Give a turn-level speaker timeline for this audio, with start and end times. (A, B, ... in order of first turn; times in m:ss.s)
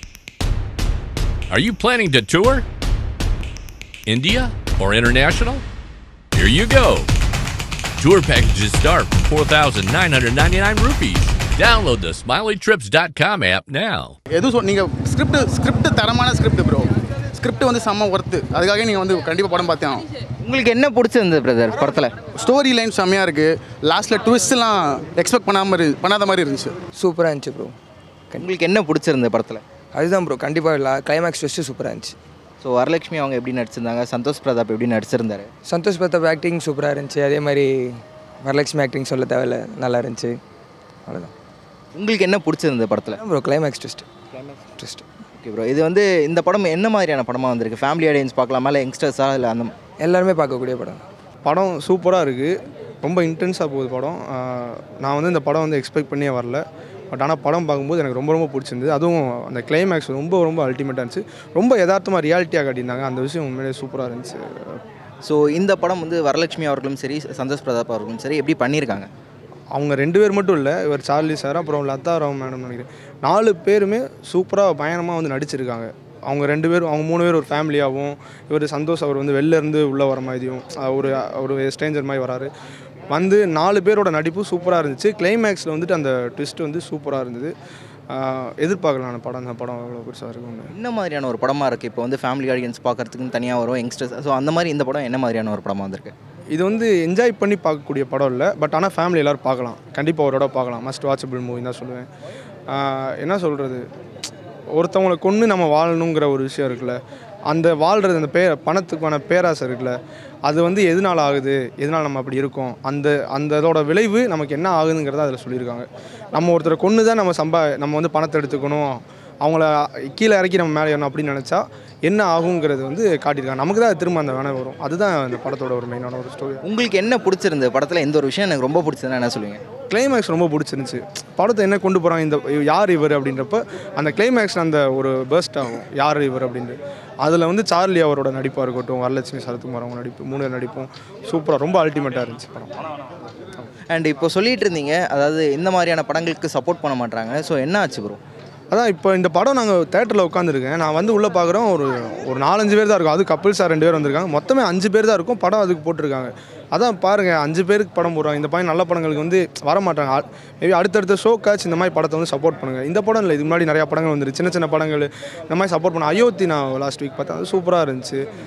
0:01.5-0:02.6 A
0:04.1-0:05.6 A
0:06.4-0:07.1 A
0:08.0-0:14.2 A
0:14.3-0:20.1 B
0:20.4-0:22.2 C
0:21.8-0:26.8 B
0:27.0-0:27.8 D
0:28.4-0:29.6 C
0:29.9-0:32.2 D
0:32.6-0:35.5 C
0:35.6-0:40.4 D
0:41.1-0:41.3 D
0:42.0-0:43.2 C
0:43.2-0:45.1 D
0:45.4-0:49.7 C
0:50.0-0:51.0 D
0:51.4-1:04.8 E
1:05.2-1:09.1 C
1:09.7-1:22.5 E
1:23.1-1:27.5 E
1:28.1-1:30.7 E
1:30.7-1:36.1 C
1:36.5-1:42.1 E
1:42.7-1:43.8 E
1:44.7-2:06.6 E
2:06.6-2:09.6 C
2:09.9-2:22.7 E
2:23.9-2:28.2 C
2:28.7-2:48.2 E